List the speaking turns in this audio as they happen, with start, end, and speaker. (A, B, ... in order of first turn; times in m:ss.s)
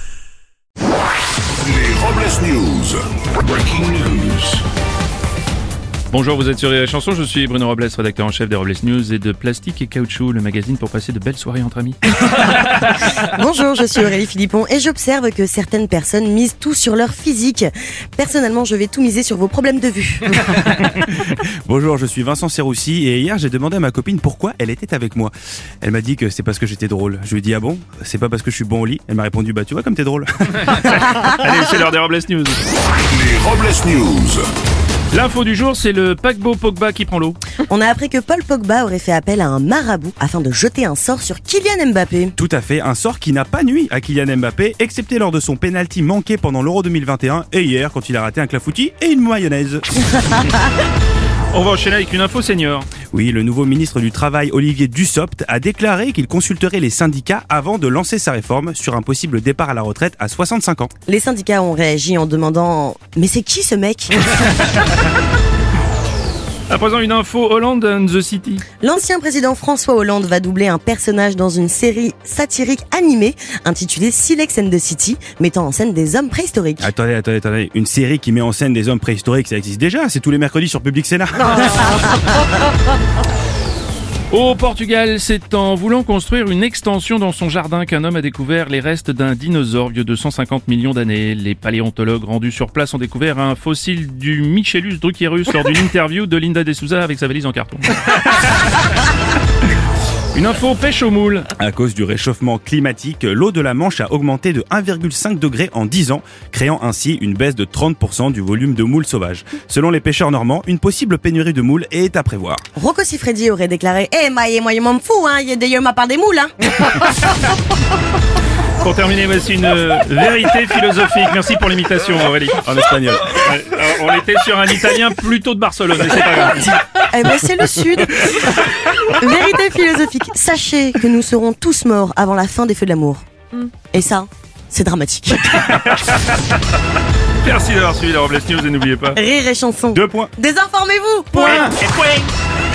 0:01.6-0:04.6 A
0:06.1-0:13.1 B
0:13.1-0:20.4 C
0:20.5-0:31.1 D
0:30.6-0:32.6 B
0:33.1-0:34.5 A
0:35.1-0:37.4 B
0:37.7-0:42.3 C
0:42.4-0:50.0 D
0:51.5-0:52.9 B
0:53.1-1:00.9 D
1:01.1-1:04.2 C
1:06.7-1:08.6 B
1:08.8-1:16.9 C
1:16.8-1:22.0 D
1:24.3-1:38.8 B
1:40.3-1:41.5 B
1:41.6-1:52.6 D
1:52.8-1:57.0 C
1:58.8-2:02.6 B
2:02.6-2:03.3 D
2:03.3-2:06.8 B
2:07.1-2:15.6 C
2:15.5-2:16.4 B
2:17.4-2:19.2 B
2:19.1-2:21.7 C
2:19.9-2:20.3 D
2:21.4-2:22.3 B